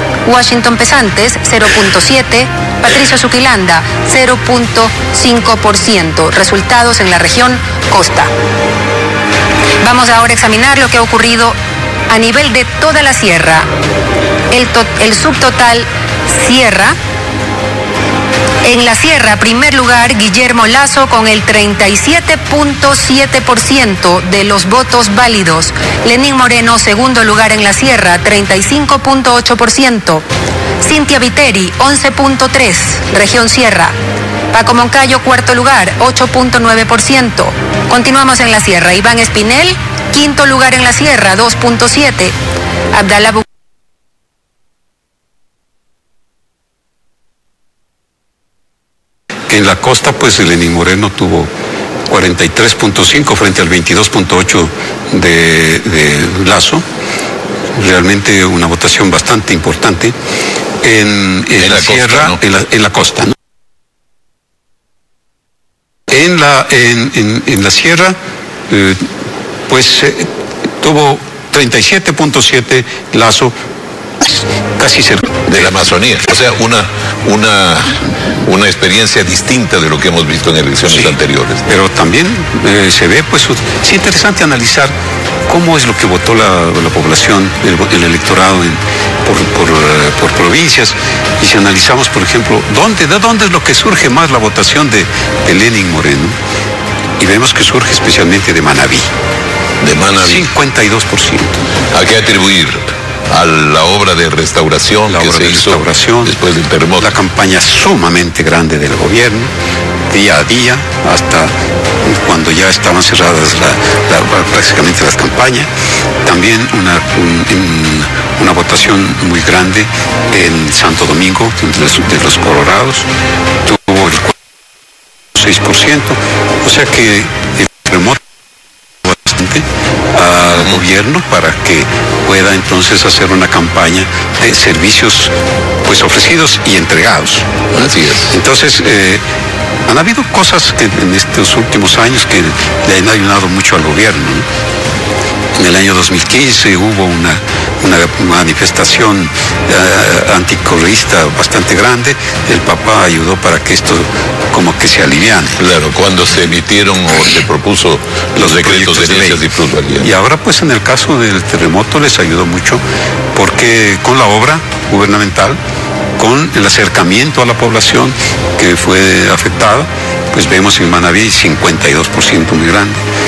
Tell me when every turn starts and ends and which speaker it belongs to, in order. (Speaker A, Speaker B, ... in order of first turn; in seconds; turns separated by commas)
Speaker A: 0.2-8.3, Speaker A: 9.8-11.6, Speaker A: 12.1-13.7, Speaker A: 14.5-16.9, Speaker A: 18.6-30.2, Speaker A: 30.8-33.9, Speaker A: 34.5-42.3, Speaker A: 42.9-43.4, Speaker B: 49.5-51.5, Speaker B: 52.1-56.8, Speaker B: 57.8-60.1, Speaker B: 60.8-63.3, Speaker C: 61.6-62.4, Speaker B: 66.1-68.2, Speaker B: 68.7-69.0, Speaker B: 69.7-70.3, Speaker B: 70.8-73.5, Speaker B: 74.2-75.8, Speaker C: 75.5-81.7, Speaker B: 80.9-84.9, Speaker B: 85.5-96.3, Speaker B: 97.2-99.1, Speaker C: 99.8-100.5, Speaker B: 100.2-101.6, Speaker C: 101.9-107.1, Speaker B: 105.0-106.3, Speaker B: 107.0-109.5, Speaker B: 110.1-111.5, Speaker B: 112.0-115.7, Speaker B: 116.2-123.0, Speaker B: 123.6-124.3, Speaker B: 125.3-128.2, Speaker B: 129.0-135.3, Speaker B: 135.8-139.2, Speaker C: 137.7-138.3, Speaker B: 139.9-144.4, Speaker B: 145.6-155.6, Speaker C: 155.6-160.1, Speaker B: 158.3-159.4, Speaker B: 160.0-162.8, Speaker B: 163.3-165.6, Speaker B: 166.2-173.0